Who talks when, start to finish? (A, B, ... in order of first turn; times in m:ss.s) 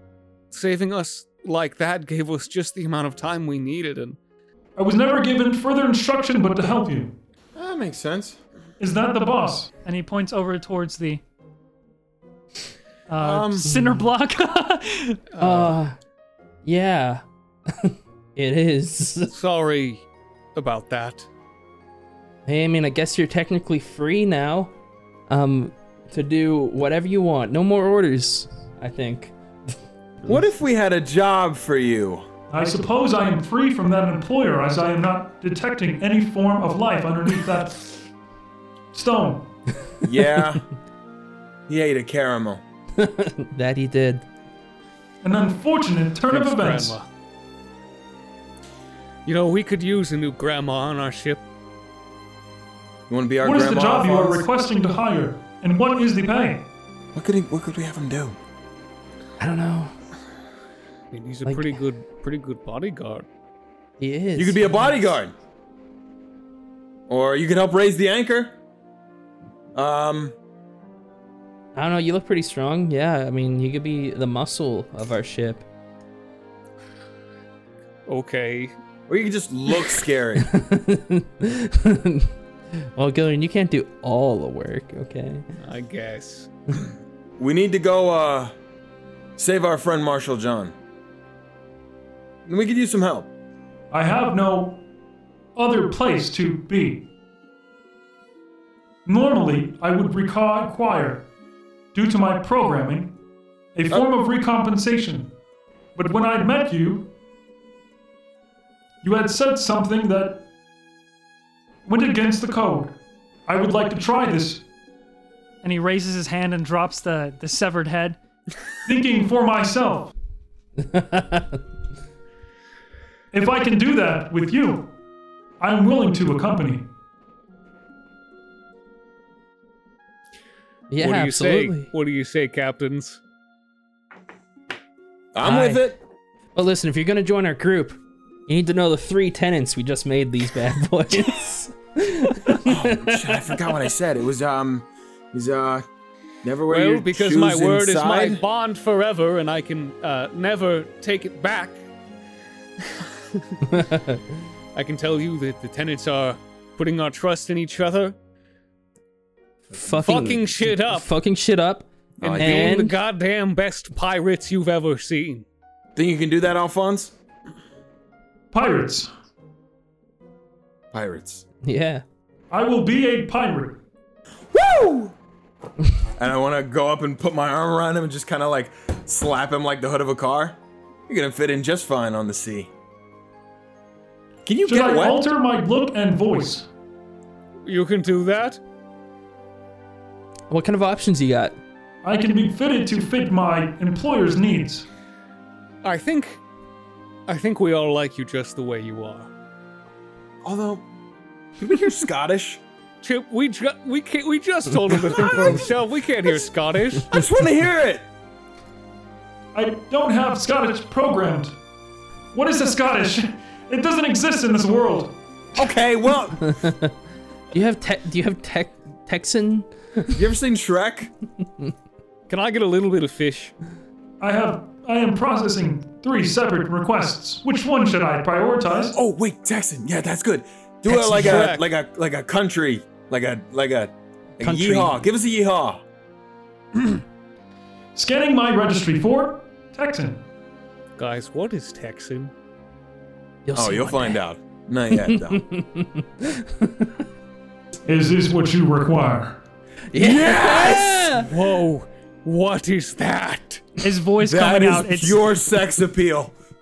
0:00.5-0:04.2 A
0:04.8-0:07.1 B
0:07.6-0:08.4 C
0:08.8-0:09.7 B
0:09.7-0:11.2 D
0:13.1-0:15.2 D
0:13.2-0:13.7 C
0:15.3-0:15.8 A
0:15.4-0:16.0 E
0:16.6-0:19.3 E
0:19.3-0:20.0 A
0:20.6-0:21.3 A
0:22.5-0:24.7 E
0:25.3-0:29.3 E
0:30.2-0:32.2 C
0:32.5-0:38.0 B
0:38.9-0:39.5 B
0:40.0-0:40.6 C
0:41.7-0:42.6 C
0:43.0-0:44.2 E
0:45.2-0:47.0 B
0:46.3-0:47.1 A
0:49.3-0:51.4 A
0:53.1-0:54.5 C
0:53.4-0:56.7 B
0:57.1-0:58.4 C
0:59.4-0:59.9 E
1:01.1-1:03.3 A
1:01.5-1:01.7 E
1:04.0-1:04.8 E
1:04.4-1:05.3 C
1:07.1-1:08.5 C
1:09.8-1:10.4 C
1:11.8-1:15.7 E
1:18.1-1:18.7 A
1:19.1-1:20.5 C
1:20.4-1:22.3 E
1:23.0-1:25.4 E
1:25.6-1:26.5 A
1:27.4-1:28.5 C
1:29.4-1:30.7 C
1:32.5-1:33.3 C
1:33.9-1:34.8 B
1:35.6-1:37.0 B
1:39.1-1:41.2 B
1:41.9-1:43.1 B
1:43.8-1:45.3 B
1:46.0-1:47.1 B
1:49.0-1:50.5 B
1:51.9-1:54.6 B
1:55.6-1:58.2 D
1:58.9-2:00.1 B
2:00.8-2:01.6 E
2:03.3-2:04.9 B
2:05.6-2:06.8 B
2:10.9-2:11.9 E
2:11.0-2:13.2 A
2:15.3-2:16.0 C
2:15.4-2:15.8 E
2:16.6-2:23.5 E
2:22.6-2:25.8 C
2:26.4-2:28.4 C
2:26.7-2:31.8 A
2:32.9-2:33.4 A
2:33.6-2:34.2 E
2:34.8-2:38.2 A
2:39.7-2:43.0 E
2:40.0-2:41.1 A
2:42.2-2:42.7 C
2:42.2-2:45.5 A
2:46.0-2:47.1 C
2:48.5-2:49.1 B
2:50.9-2:51.4 C
2:51.6-2:52.0 E
2:52.5-2:53.8 B
2:54.5-2:55.2 C
2:56.2-3:00.6 C
3:01.1-3:02.7 C
3:04.5-3:05.2 C
3:04.7-3:06.7 B
3:07.6-3:08.6 A
3:10.5-3:11.6 E
3:12.0-3:14.8 B
3:15.8-3:16.4 A
3:17.3-3:19.3 A
3:20.4-3:20.8 C
3:21.6-3:22.6 C
3:23.0-3:27.2 A
3:25.1-3:25.5 C
3:27.1-3:28.0 C
3:29.6-3:31.5 B
3:32.3-3:35.2 B
3:35.6-3:36.5 C
3:36.4-3:36.9 E
3:37.5-3:40.2 E
3:40.1-3:41.1 C
3:42.3-3:43.5 A
3:44.2-3:49.0 B
3:48.9-3:55.8 C
3:50.9-3:51.7 A
3:54.4-3:54.9 E
3:58.0-4:00.2 B
4:01.0-4:02.3 A
4:03.4-4:04.2 E
4:03.5-4:05.4 C
4:05.0-4:07.0 E
4:07.9-4:09.4 B
4:09.9-4:11.3 E
4:10.0-4:11.2 C
4:11.3-4:13.6 A
4:13.8-4:15.2 D
4:14.2-4:16.3 C